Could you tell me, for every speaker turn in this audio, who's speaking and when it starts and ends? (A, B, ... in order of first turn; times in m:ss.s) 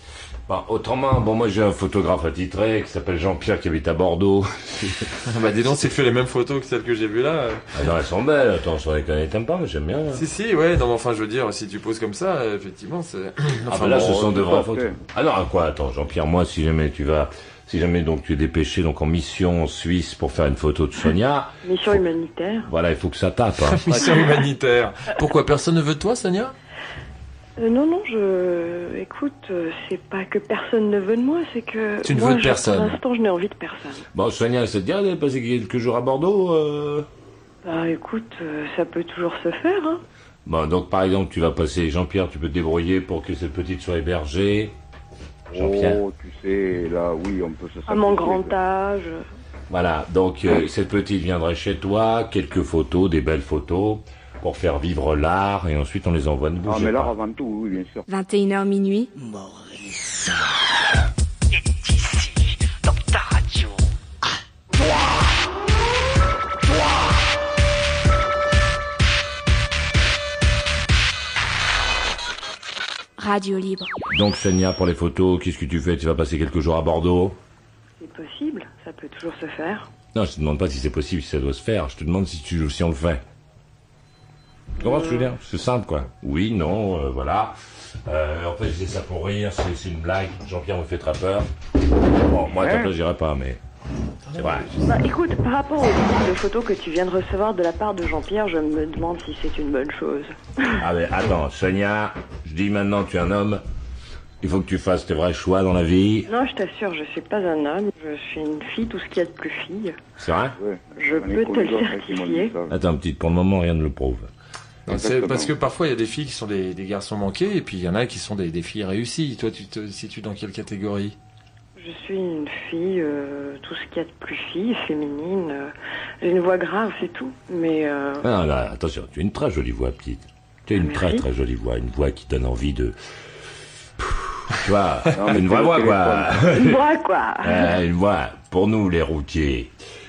0:00.5-0:05.2 A
0:05.2-0:07.8 B
0:07.7-0:10.2 A
0:10.1-0:14.2 B
0:13.7-0:22.0 A
0:13.9-0:15.0 C
0:21.6-0:22.7 D
0:22.6-0:23.8 A
0:23.6-0:26.5 B
0:27.6-0:34.0 D
0:32.0-0:33.0 B
0:34.1-0:37.1 A
0:37.6-0:40.0 D
0:40.4-0:44.7 A
0:45.5-0:46.0 A
0:45.5-0:48.5 C
0:47.9-0:49.2 D
0:49.7-0:57.1 A
0:56.6-0:58.0 C
0:58.1-0:59.1 E
1:02.0-1:02.3 E
1:02.9-1:03.7 E
1:13.2-1:13.9 E
1:14.1-1:17.4 A
1:18.0-1:19.9 D
1:20.1-1:23.2 A
1:24.8-1:25.3 D
1:24.8-1:27.6 A
1:28.1-1:31.5 A
1:32.2-1:33.6 A
1:32.6-1:32.9 C
1:34.2-1:35.0 B
1:34.4-1:34.7 A
1:34.8-1:40.7 D
1:40.8-1:43.6 A
1:44.4-1:46.3 A
1:46.3-1:50.0 D
1:50.2-1:50.6 A
1:50.6-1:52.7 C
1:51.0-1:52.5 D
1:52.7-1:54.3 A
1:54.8-2:01.2 B
1:54.9-1:55.5 C
2:01.8-2:08.2 D
2:08.2-2:13.0 A
2:10.7-2:11.2 D
2:14.0-2:16.8 A
2:15.1-2:16.4 C
2:16.5-2:17.8 D
2:17.4-2:19.7 A